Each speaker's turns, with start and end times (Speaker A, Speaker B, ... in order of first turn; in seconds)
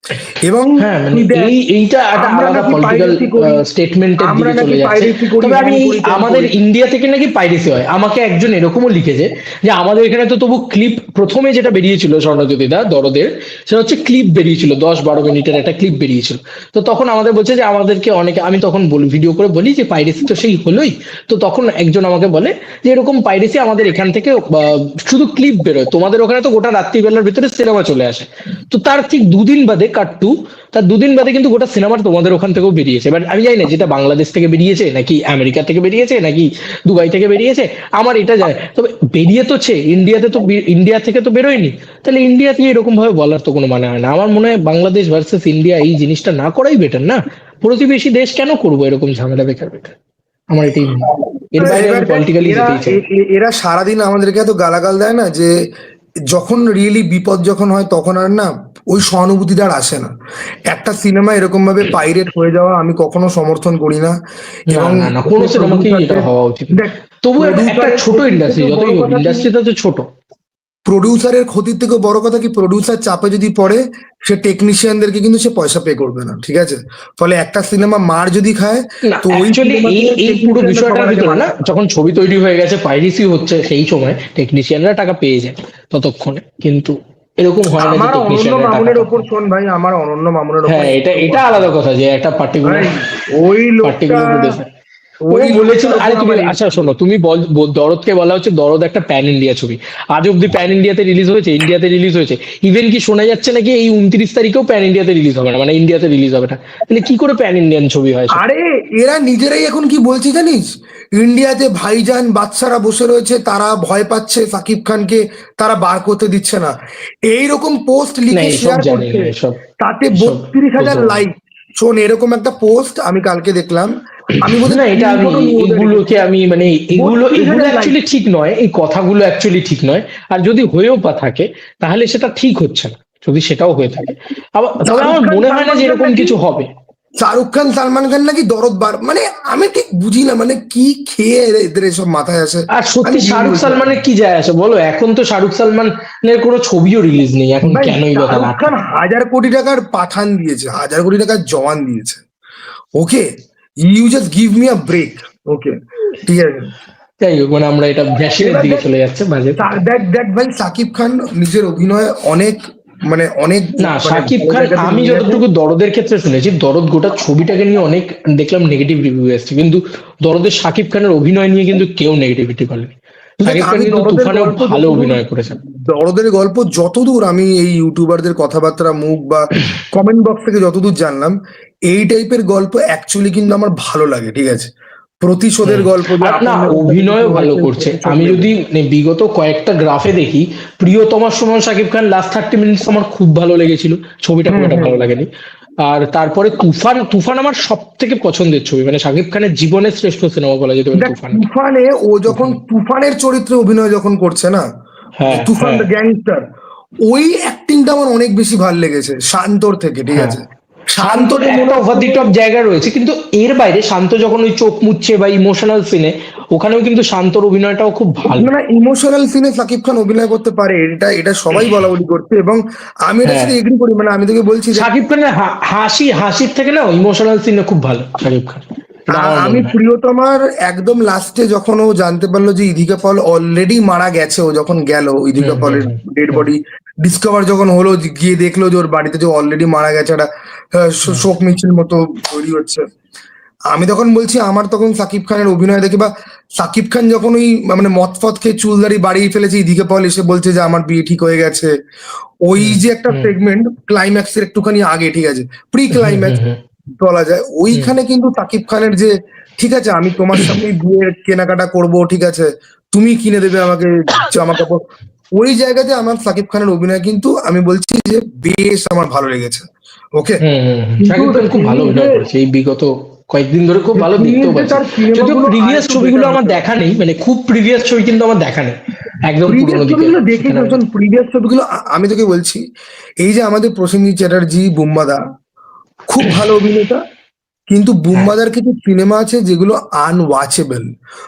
Speaker A: 0.3-1.5, 2.2-3.6, 4.2-6.5, 51.6-55.5, 56.3-60.1, 60.7-64.1, 64.7-69.5, 70.8-81.6, 87.8-91.7, 92.6-94.6, 95.3-96.9, 108.3-116.7, 117.2-126.1, 126.9-128.0, 134.8-136.4, 137.2-144.0, 147.6-152.2, 152.9-153.3, 153.8-156.7, 158.4-158.9, 159.6-165.4, 173.4-181.3, 181.9-184.7, 185.2-188.5, 194.5-195.1, 200.9-204.6, 205.3-206.4, 207.1-212.3, 218.3-224.9, 229.1-242.9, 243.7-251.7, 252.4-256.4, 257.0-269.6, 271.0-272.2, 273.9-276.6, 279.5-282.6, 283.2-285.2, 286.1-287.0, 287.7-290.9
Speaker B: 0.8-50.0, 50.5-53.0, 64.7-70.1, 79.0-89.2, 90.7-93.0, 93.8-94.7, 95.3-108.4, 118.3-119.6, 120.1-121.2, 124.3-136.7, 142.7-148.7, 157.2-159.8, 163.8-175.6, 185.6-195.3, 195.8-201.4, 202.3-202.6, 205.2-205.9, 211.0-218.5, 223.2-223.5, 224.7-229.8, 235.4-236.4, 252.6-253.3, 255.9-256.6, 270.4-280.8